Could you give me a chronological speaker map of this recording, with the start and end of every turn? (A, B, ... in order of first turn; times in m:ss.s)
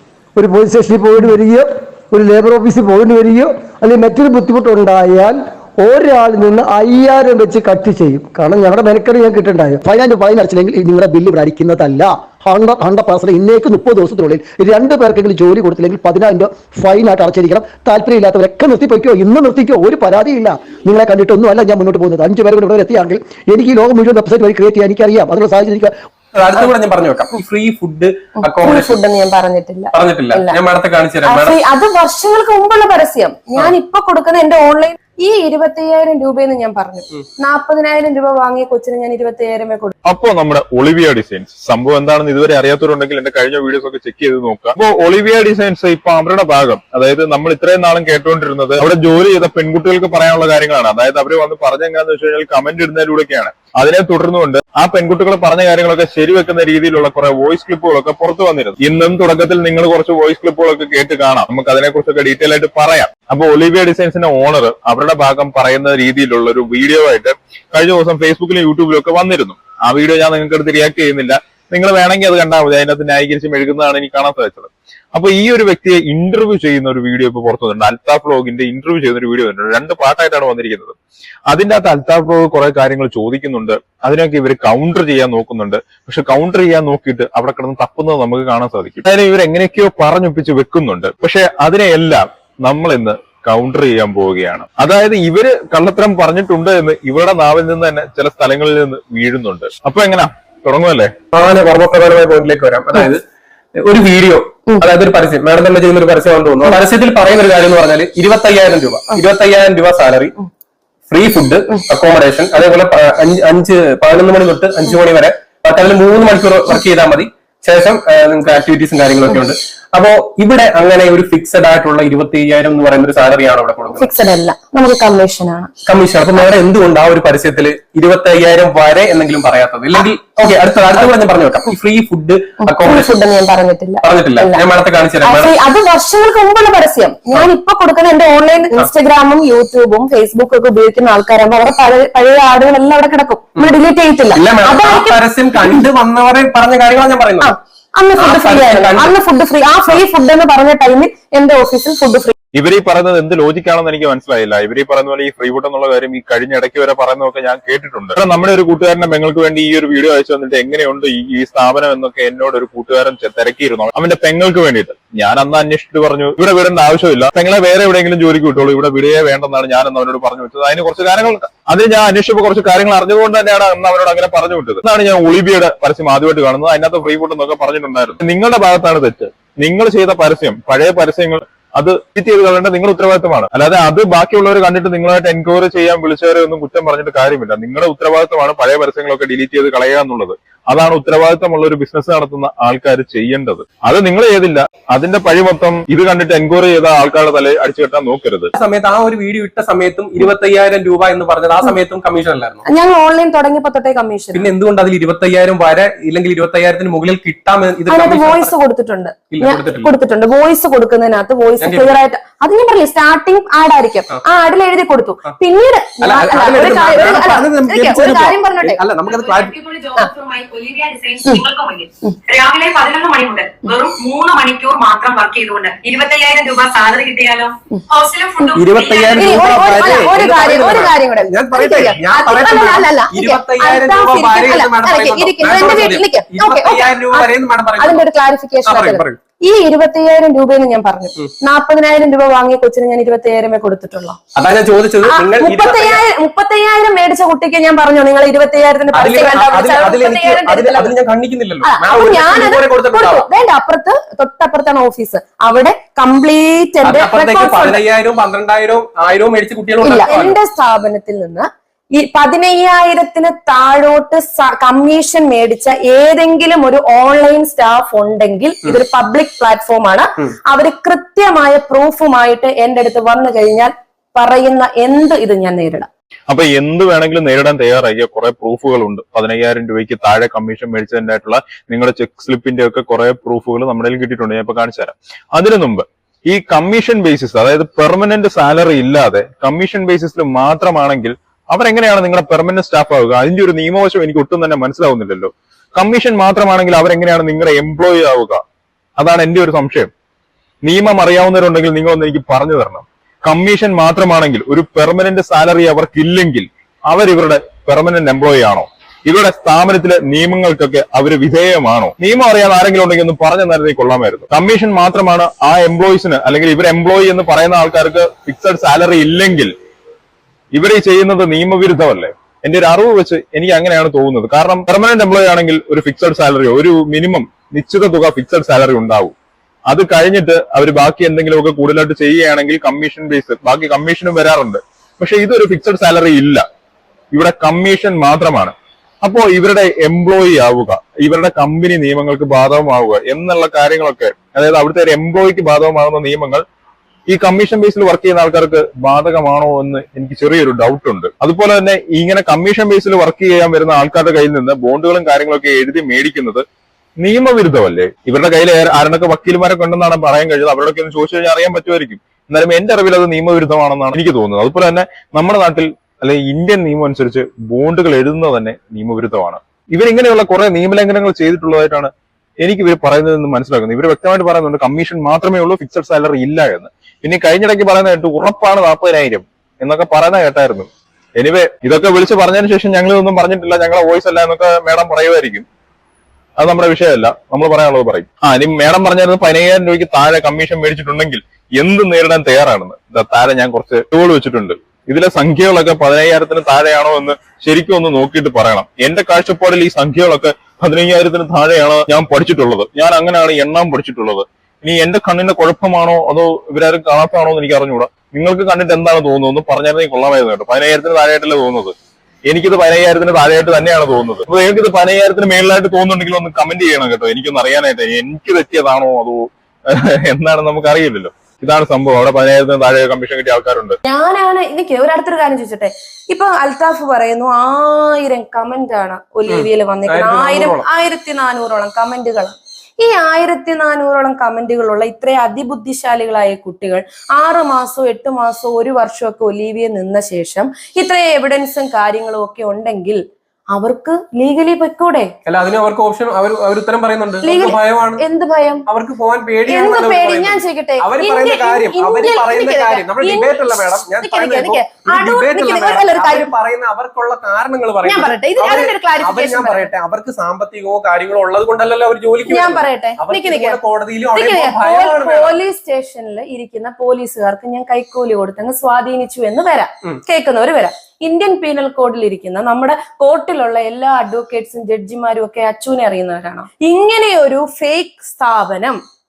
0:00.4-0:25.9 A
0:26.4-0:29.0 B
0:28.4-0:30.6 C
0:29.9-0:31.6 B
0:31.2-0:39.9 C
0:40.0-1:21.0 D
1:21.5-1:41.1 D
1:41.3-1:43.2 B
1:43.8-1:50.4 B
1:51.1-2:04.1 B
2:04.0-2:05.7 C
2:05.9-2:13.1 B
2:12.6-2:14.6 C
2:14.0-2:15.5 B
2:15.2-2:25.8 C
2:24.3-2:27.5 B
2:27.4-2:32.3 C
2:28.2-2:29.1 B
2:32.5-3:18.5 D
3:18.5-3:22.6 B
3:22.7-3:24.5 C
3:24.3-3:28.5 B
3:27.9-3:38.8 C
3:29.3-3:29.9 B
3:31.6-3:31.9 B
3:36.0-3:39.5 B
3:39.0-3:49.7 E
3:48.6-3:58.0 B
3:49.1-4:04.2 C
3:58.6-3:59.2 B
4:04.4-4:06.0 B
4:05.1-4:10.9 C
4:08.9-4:13.3 B
4:11.6-4:17.8 C
4:16.8-4:20.4 B
4:19.8-4:35.9 C
4:36.3-4:58.4 D
4:59.0-4:59.9 D
5:00.6-5:19.5 D
5:20.5-5:29.1 D
5:29.7-5:36.4 D
5:37.1-5:46.4 D
5:47.1-5:56.4 D
5:57.0-6:25.4 D
6:26.4-6:51.7 D
6:52.3-7:03.8 D
7:03.8-7:23.0 C
7:09.3-7:10.6 B
7:23.5-7:25.1 C
7:25.2-7:28.0 B
7:27.2-7:28.6 C
7:28.7-7:45.4 B
7:29.4-7:33.4 C
7:34.0-7:36.3 C
7:37.8-7:39.7 C
7:42.3-7:43.6 C
7:44.1-7:58.8 C